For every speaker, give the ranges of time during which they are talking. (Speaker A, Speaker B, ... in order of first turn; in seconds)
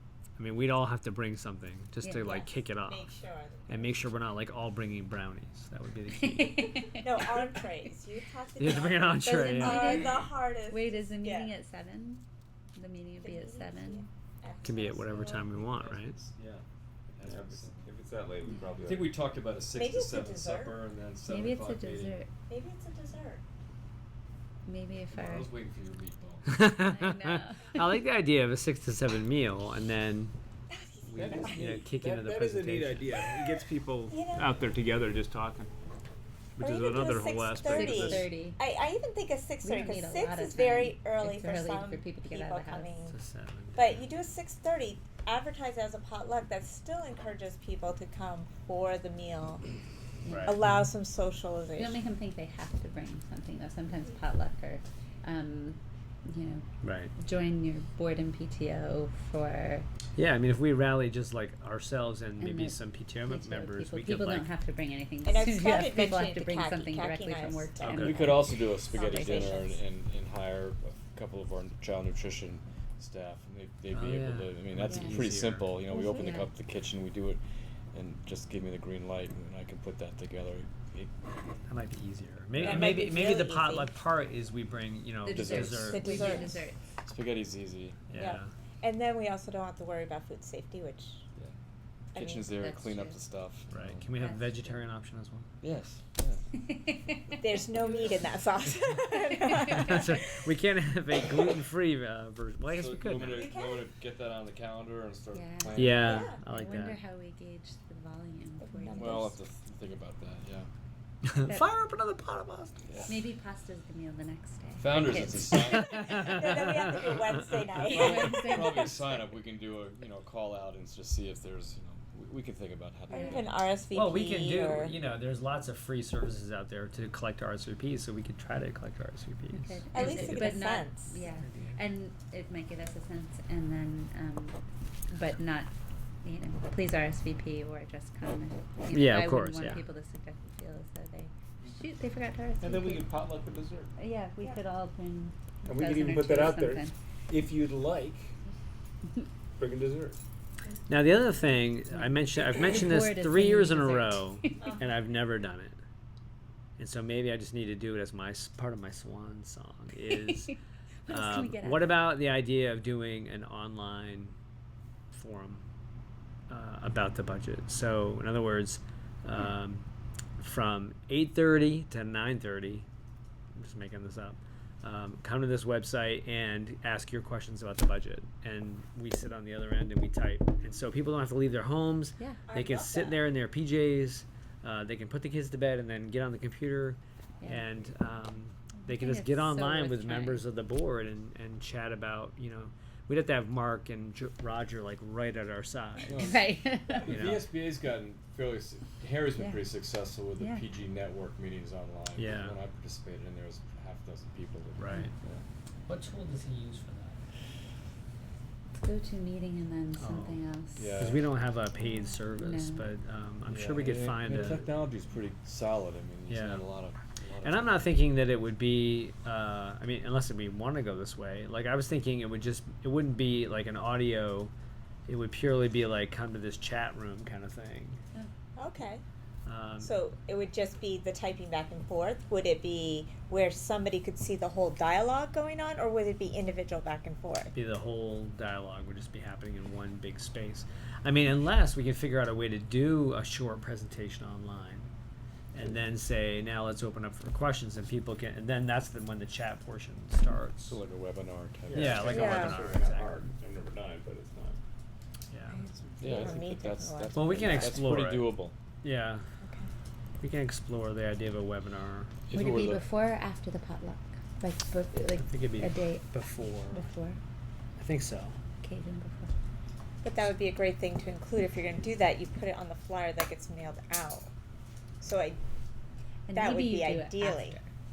Speaker A: 0.4-3.1, 3.7-7.3, 8.6-10.3, 14.6-16.2, 26.5-30.3, 31.0-33.6, 34.5-35.3, 36.6-38.3, 43.1-44.1, 50.3-50.9, 56.8-57.1, 60.2-64.5, 67.8-68.2, 73.9-75.8, 81.7-86.5, 88.1-88.5, 93.7-95.5, 99.6-103.5, 105.7-107.0, 111.3-112.9, 115.7-117.6, 123.9-130.5, 131.2-131.8, 138.9-139.8, 150.9-155.8, 156.8-160.5, 161.1-164.4, 165.1-165.7, 166.5-169.9, 170.4-172.9, 173.5-196.3, 197.0-197.5, 202.2-202.6, 204.8-205.1, 205.9-207.2, 210.0-210.4, 211.0-214.7, 216.3-216.7, 217.4-224.5, 225.1-228.0, 229.5-230.0, 237.5-244.9, 245.5-250.8, 251.7-253.3, 255.3-255.7, 257.1-259.2, 260.2-262.3, 265.0-266.9, 267.8-268.4
Speaker B: 2.0-2.5, 6.1-7.1, 9.2-12.2, 12.8-14.1, 18.5-18.7, 21.3-22.3, 24.7-25.5, 26.7-28.0, 37.6-38.6, 39.6-43.0, 50.2-50.6, 51.8-56.6, 57.2-59.9, 62.4-69.8, 74.9-75.2, 76.0-76.5, 85.2-86.8, 92.2-93.2, 94.1-94.8, 96.5-98.1, 99.3-99.9, 105.3-109.4, 111.4-111.7, 113.1-116.0, 117.8-119.2, 123.1-123.5, 129.5-134.6, 135.1-135.7, 136.2-143.2, 144.0-147.0, 151.9-154.8, 160.0-160.5, 161.1-162.1, 182.2-182.5, 188.8-190.4, 196.1-197.1, 199.4-199.6, 200.4-200.7, 208.8-211.0, 211.8-212.9, 262.3-267.2, 268.6-269.3, 276.3-277.7
Speaker C: 2.2-4.0, 7.0-11.5, 13.2-15.4, 19.7-20.8, 22.5-23.4, 30.7-31.6, 34.1-34.5, 36.6-43.1, 43.8-49.6, 50.4-52.0, 65.2-68.2, 68.9-69.6, 75.9-76.3, 82.6-83.9, 85.9-86.6, 88.1-91.2, 92.1-92.4, 97.4-100.3, 103.3-103.9, 106.0-106.4, 108.6-109.3, 115.8-119.0, 123.1-125.0, 129.9-131.2, 182.5-183.2, 228.6-229.0, 229.8-237.5, 252.0-252.6, 256.0-257.7, 259.4-259.7, 270.0-274.3, 275.0-275.4, 276.3-277.6
Speaker D: 15.8-16.6, 17.1-17.9, 18.8-22.2, 25.1-26.5, 67.9-77.4, 77.9-81.1, 85.3-86.3, 87.1-88.1, 92.2-94.1, 95.6-96.4, 102.7-106.3, 108.9-110.7, 112.9-113.2, 114.8-116.1, 117.8-123.6, 196.1-196.4, 196.9-205.4, 210.8-211.2, 213.4-217.8, 250.7-252.2, 256.0-258.5, 262.3-262.8
Speaker E: 17.2-19.1, 31.2-35.7, 142.6-143.9, 145.7-148.3, 149.6-150.2, 251.7-254.6